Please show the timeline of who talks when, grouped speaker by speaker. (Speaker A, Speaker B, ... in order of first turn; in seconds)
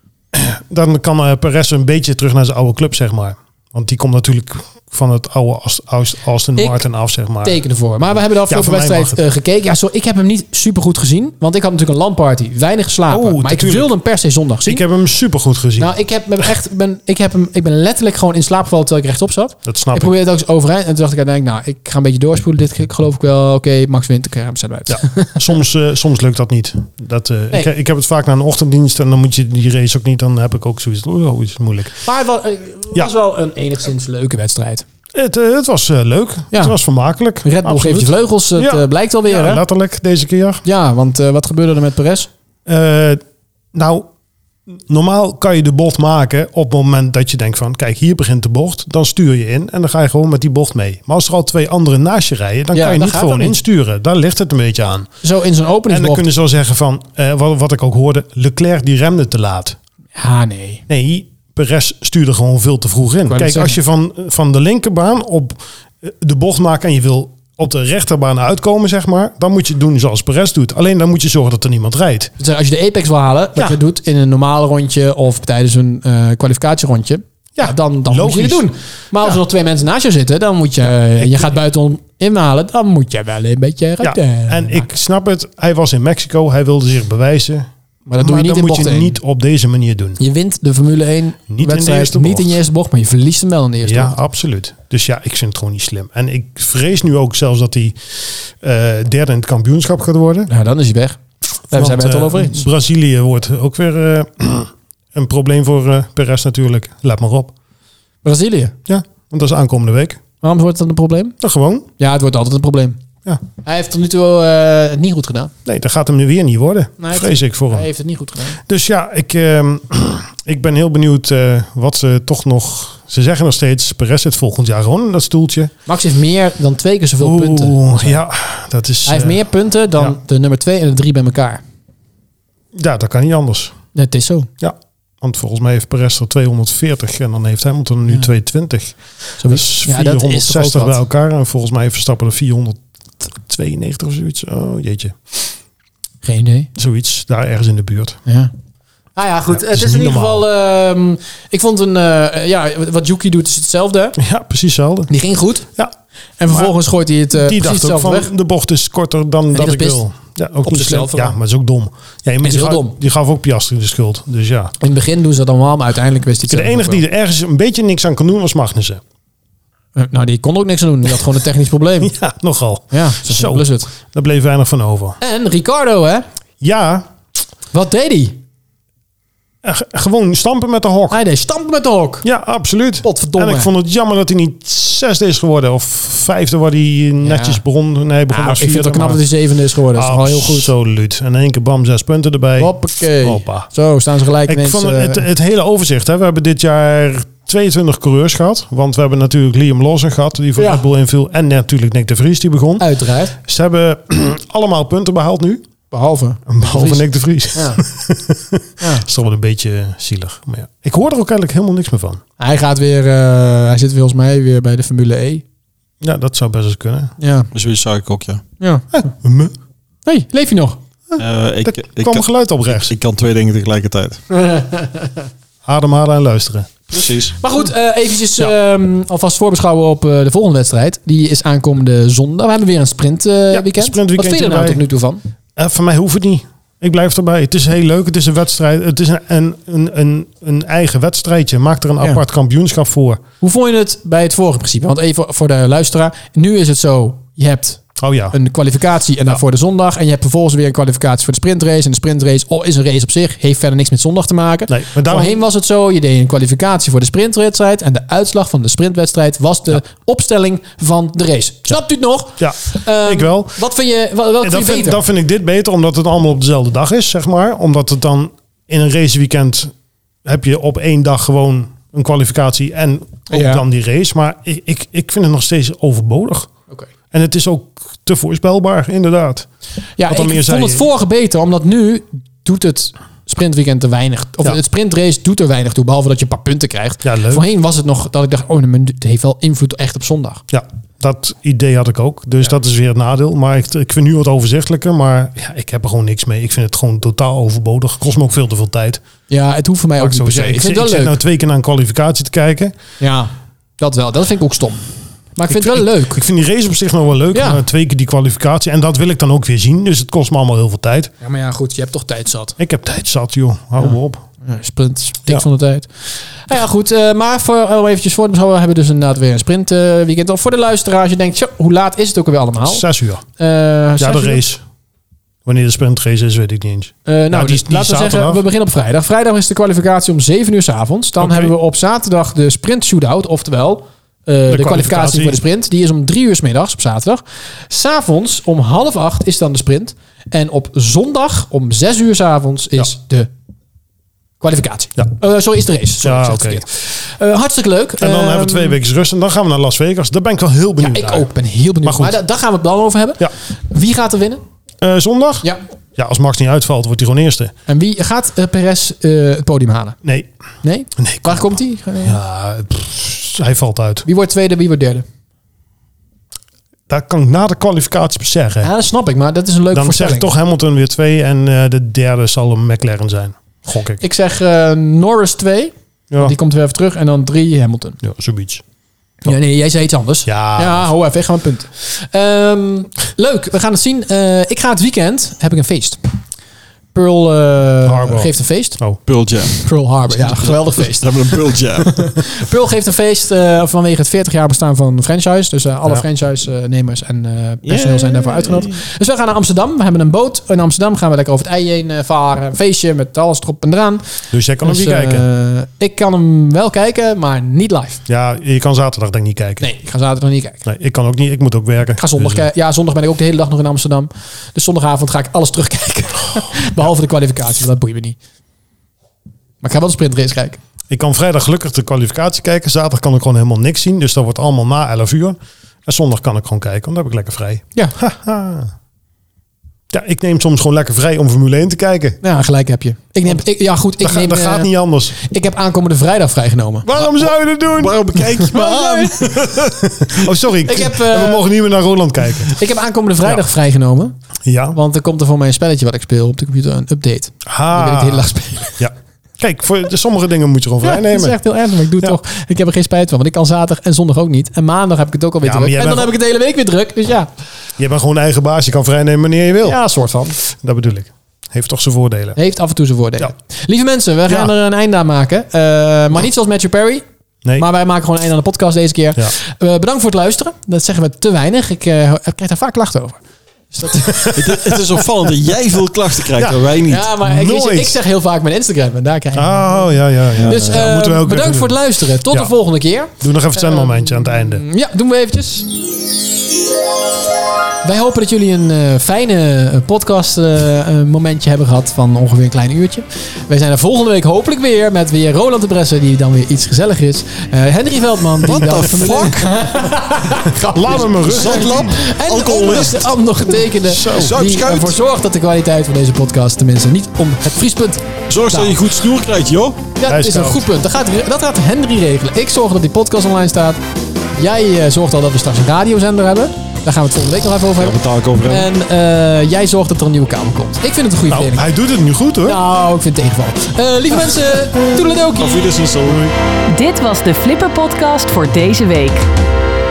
Speaker A: 0.3-7.6, 8.5-9.2, 13.1-13.9, 14.7-15.9, 19.6-20.1, 24.9-31.9, 35.1-40.6, 42.6-43.2, 43.7-44.1, 44.7-55.1, 55.9-59.8, 60.9-72.3, 77.6-78.7, 81.2-81.5, 84.0-90.2, 91.5-92.6, 93.8-100.5, 101.7-107.5, 108.9-110.2, 111.4-111.9, 115.7-117.9, 118.7-125.7, 127.2-129.4, 132.7-133.7, 134.6-145.4, 146.8-148.2, 149.5-150.4, 154.2-155.1, 156.5-156.8, 157.3-164.7, 166.5-169.0, 172.0-175.2, 176.6-177.1, 179.6-181.2, 182.2-189.2, 189.9-193.7, 194.4-205.6, 206.5-212.2, 216.0-217.1, 218.9-219.5, 221.1-222.9, 225.6-226.7, 233.5-234.8, 235.6-243.2, 248.0-248.3, 254.7-255.3, 262.4-263.6, 264.4-269.7, 270.2-276.5, 277.1-279.5, 280.1-280.8, 287.0-287.4, 290.5-299.0, 300.0-302.7, 305.5-311.1, 312.6-314.2, 322.6-323.2, 324.0-324.6, 325.4-328.4, 331.2-331.5, 334.5-335.4, 346.0-346.6, 348.0-351.3, 351.8-352.2, 354.8-357.5, 360.0-360.3, 361.0-364.1, 366.9-368.7, 369.7-374.0, 376.1-376.3, 378.0-378.6, 380.2-380.9, 387.8-389.0, 404.3-405.2, 408.1-409.7, 410.6-412.4, 420.9-428.7, 429.9-432.2, 434.0-435.1, 436.8-438.0, 439.7-442.6, 444.4-444.8, 447.4-448.3, 448.8-451.4, 455.4-456.1, 457.8-459.8, 460.4-462.4, 464.3-464.5, 474.1-474.8, 476.4-478.0, 479.3-481.8, 483.2-484.6, 500.6-502.0, 503.8-504.3, 510.1-510.6, 521.3-522.6, 526.0-526.3
Speaker B: 6.6-6.8, 7.4-14.8, 15.8-25.4, 32.0-34.8, 36.5-36.8, 37.4-39.6, 40.6-42.3, 52.7-53.6, 55.2-56.2, 60.1-60.8, 63.3-63.8, 72.4-84.9, 88.1-89.2, 90.2-94.2, 100.5-102.7, 108.2-108.7, 110.4-111.3, 112.0-113.0, 113.6-115.5, 117.0-118.6, 125.9-128.2, 129.1-131.6, 133.9-134.5, 139.4-141.0, 146.2-146.7, 148.3-148.5, 149.1-154.2, 155.1-155.7, 156.4-158.3, 159.5-160.0, 160.6-161.4, 162.4-162.9, 164.8-167.0, 169.9-172.1, 172.9-173.9, 175.2-176.2, 177.7-178.4, 181.1-182.2, 183.0-183.7, 187.2-187.6, 188.3-190.7, 192.6-195.2, 200.6-200.8, 202.8-203.3, 205.9-207.8, 208.8-209.0, 212.4-215.4, 217.2-217.5, 218.6-219.0, 220.0-220.8, 224.3-225.1, 227.4-235.2, 243.4-247.8, 248.3-265.0, 273.3-273.6, 280.0-290.4, 299.3-301.2, 303.0-306.2, 307.3-307.6, 311.2-312.6, 313.8-322.8, 323.4-324.4, 327.1-343.3, 344.4-348.8, 350.8-354.4, 357.7-360.0, 360.6-362.2, 364.0-365.0, 368.6-370.3, 374.0-378.0, 379.2-386.0, 386.9-388.8, 389.6-404.0, 404.6-408.0, 409.6-410.6, 412.0-418.2, 419.6-420.6, 432.2-436.9, 438.4-439.1, 440.6-441.4, 442.5-444.1, 444.7-448.8, 450.8-457.3, 459.6-460.4, 462.4-467.0, 467.6-473.2, 473.7-474.5, 476.9-485.7, 487.8-508.8, 510.0-513.8, 514.4-521.7, 522.4-525.6
Speaker C: 217.5-218.4, 221.2-224.2, 226.9-227.3, 389.1-389.6, 390.2-392.0, 397.6-398.8, 436.9-440.2, 474.3-477.1, 480.3-480.8, 498.4-499.6, 501.0-503.1, 504.0-505.0, 508.3-509.8, 517.8-518.7, 525.3-526.2
Speaker D: 526.7-529.3